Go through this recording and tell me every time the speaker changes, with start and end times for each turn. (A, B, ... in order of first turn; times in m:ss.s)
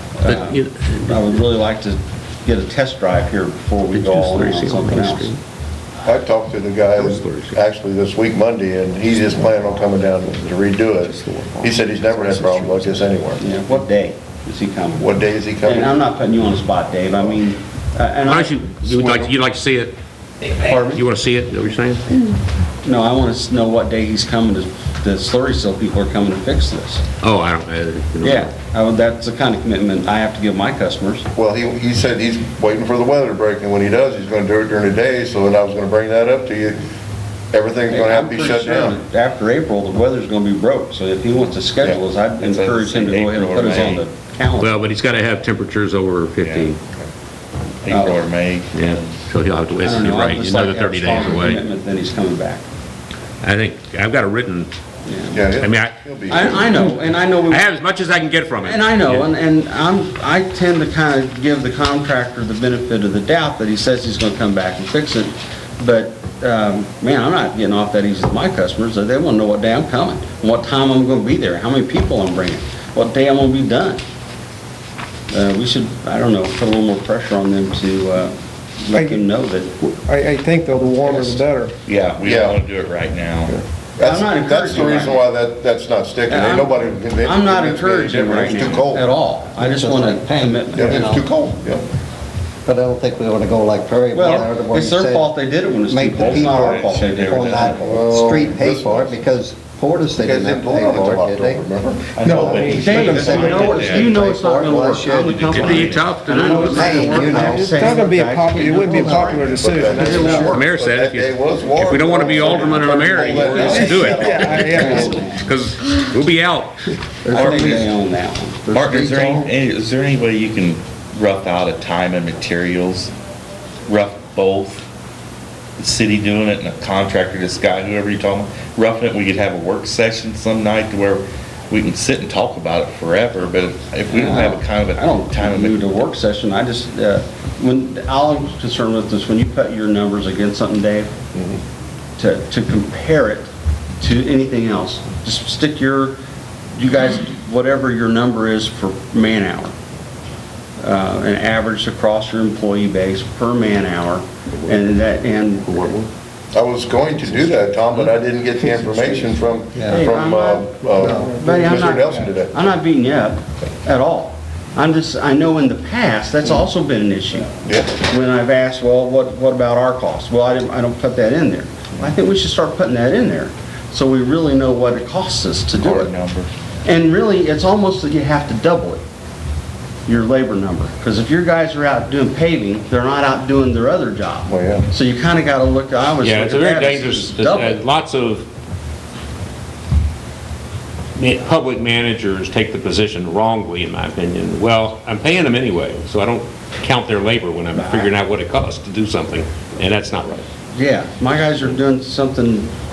0:00.1-0:05.3 A
0:00.3-0:01.1 B
0:03.9-0:05.4 B
0:06.0-0:13.4 C
0:07.0-0:07.6 B
0:11.3-0:13.0 D
0:13.4-0:19.3 A
0:15.0-0:16.0 C
0:18.2-0:20.0 B
0:20.6-0:21.0 A
0:20.7-0:22.0 B
0:22.8-0:27.0 A
0:27.2-0:28.5 B
0:28.2-0:31.3 A
0:31.4-0:36.8 C
0:37.5-0:39.0 C
0:37.9-0:44.8 A
0:42.4-0:44.0 D
0:44.6-0:46.8 B
0:46.4-0:46.7 D
0:47.8-0:49.2 D
0:47.9-0:48.3 A
0:48.7-0:51.6 B
0:49.8-0:52.6 A
0:53.4-0:54.7 B
0:55.1-0:55.4 A
0:55.3-0:56.7 C
0:55.6-0:56.7 B
0:56.3-0:57.7 A
0:57.5-0:59.3 B
0:58.6-1:14.0 A
1:15.3-1:19.8 A
1:18.9-1:19.2 E
1:19.8-1:21.7 E
1:21.1-1:21.4 A
1:21.9-1:23.6 D
1:22.2-1:22.6 C
1:24.0-1:29.1 C
1:24.0-1:25.2 A
1:26.3-1:31.1 A
1:29.6-1:31.3 F
1:30.7-1:31.8 C
1:32.7-1:35.3 F
1:34.1-1:37.7 A
1:35.9-1:45.9 F
1:36.2-1:37.9 D
1:37.8-1:39.2 C
1:40.2-1:42.2 C
1:42.2-1:43.3 D
1:42.2-1:44.0 E
1:42.7-1:50.6 A
1:43.2-1:43.6 C
1:43.6-1:44.1 B
1:45.5-1:47.0 B
1:46.4-1:50.6 E
1:46.6-1:47.9 F
1:49.2-1:54.6 C
1:50.3-1:54.3 B
1:52.1-1:55.5 A
1:53.5-1:55.2 E
1:54.9-1:57.8 B
1:57.2-1:57.9 F
1:57.3-1:58.7 A
1:57.5-1:57.9 D
1:58.7-1:59.5 F
1:58.7-2:03.1 D
2:03.9-2:04.9 D
2:05.8-2:15.8 D
2:14.1-2:21.2 A
2:22.2-2:26.2 A
2:26.8-2:29.7 A
2:30.8-2:36.0 A
2:36.5-2:42.6 C
2:39.8-2:40.1 F
2:39.9-2:56.1 A
2:47.6-2:47.9 C
2:55.8-2:56.5 D
2:56.8-2:59.0 A
3:00.1-3:07.8 A
3:04.5-3:04.9 C
3:06.2-3:08.5 B
3:11.2-3:20.5 B
3:17.8-3:18.1 A
3:20.7-3:22.7 A